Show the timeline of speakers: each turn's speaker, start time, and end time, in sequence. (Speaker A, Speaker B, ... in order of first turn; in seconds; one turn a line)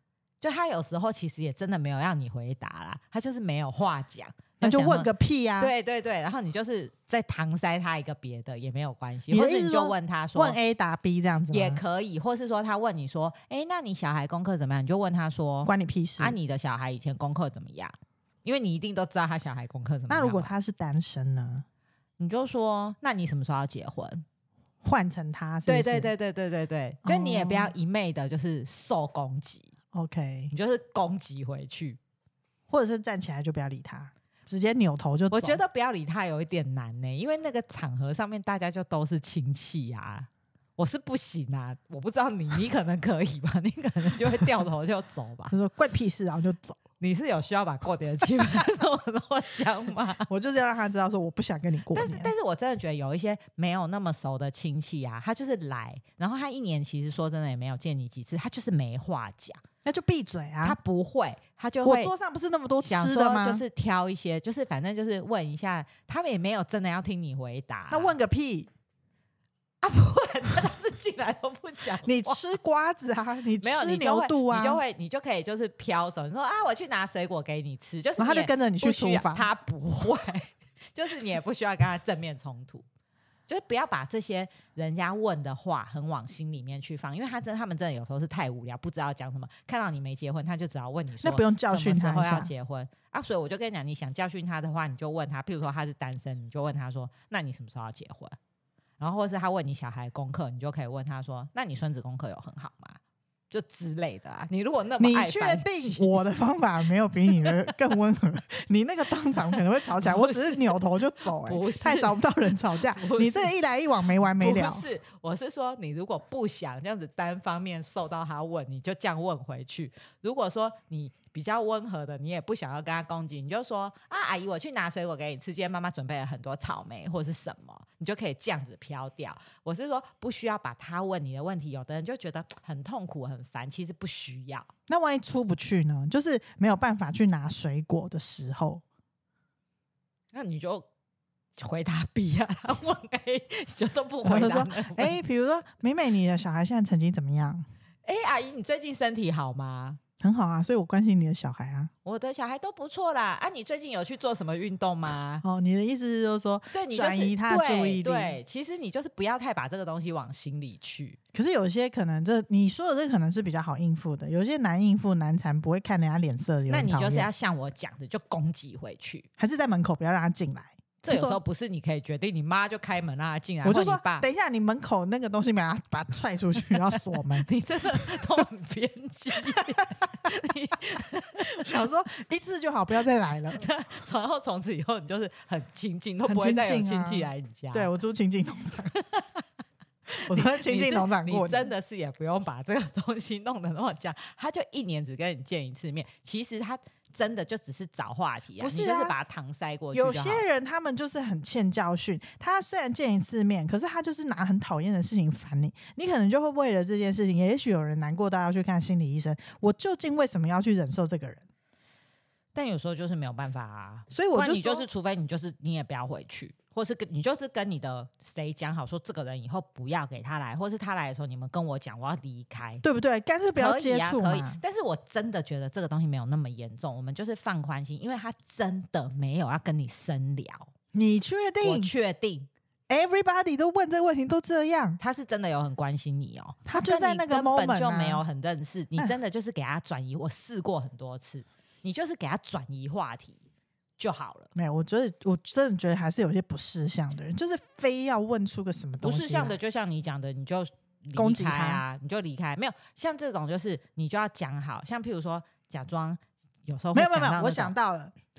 Speaker A: 0.4-10.6
Speaker B: 4.6-5.7
Speaker B: 9.3-11.8
Speaker A: 11.5-20.5
Speaker B: 15.7-16.4
Speaker B: 20.1-21.6
Speaker A: 22.2-24.2
Speaker B: 24.8-26.1
Speaker A: 25.7-29.7
Speaker B: 27.1-27.7
Speaker B: 29.9-30.5
Speaker A: 30.5-32.0
Speaker B: 32.7-35.6
Speaker A: 35.3-45.5
Speaker B: 45.5-46.8
Speaker A: 47.0-50.3
Speaker B: 50.3-52.3
Speaker A: 51.9-59.6
Speaker B: 59.9-60.8
Speaker A: 60.6-62.1
Speaker B: 61.8-63.6
Speaker A: 62.8-68.2
Speaker B: 67.9-68.7
Speaker A: 69.8-72.4
Speaker B: 72.0-74.8
Speaker A: 73.6-82.8
Speaker B: 78.2-79.5
Speaker A: 83.5-98.4
Speaker B: 91.2-92.5
Speaker A: 99.0-103.0
Speaker A: 103.5-106.1
Speaker B: 105.0-114.9
Speaker A: 109.9-113.5
Speaker A: 114.2-134.7
Speaker B: 134.9-138.8
Speaker A: 140.3-140.9
Speaker A: 141.6-145.2
Speaker B: 144.2-147.7
Speaker A: 148.1-150.0
Speaker B: 150.2-151.9
Speaker A: 152.1-155.4
Speaker B: 155.4-158.4
Speaker A: 156.7-161.2
Speaker B: 161.3-167.3
Speaker A: 166.7-169.3
Speaker B: 169.4-171.4
Speaker A: 171.0-174.3
Speaker B: 173.6-178.1
Speaker A: 177.4-181.6
Speaker B: 181.5-183.7
Speaker A: 183.6-187.9
Speaker B: 186.3-188.9
Speaker A: 188.9-189.4
Speaker B: 190.3-191.7
Speaker A: 190.3-200.4
Speaker B: 198.6-199.2
Speaker B: 199.9-211.4
Speaker A: 212.6-222.8
Speaker B: 214.1-214.9
Speaker B: 222.8-224.6
Speaker A: 223.6-230.7
Speaker B: 230.9-231.9
Speaker A: 231.6-232.5
Speaker B: 232.9-235.0
Speaker A: 235.0-243.4
Speaker B: 236.7-238.2
Speaker A: 244.0-244.5
Speaker B: 244.6-249.6
Speaker A: 249.0-257.7
Speaker B: 251.2-251.8
Speaker B: 256.9-258.1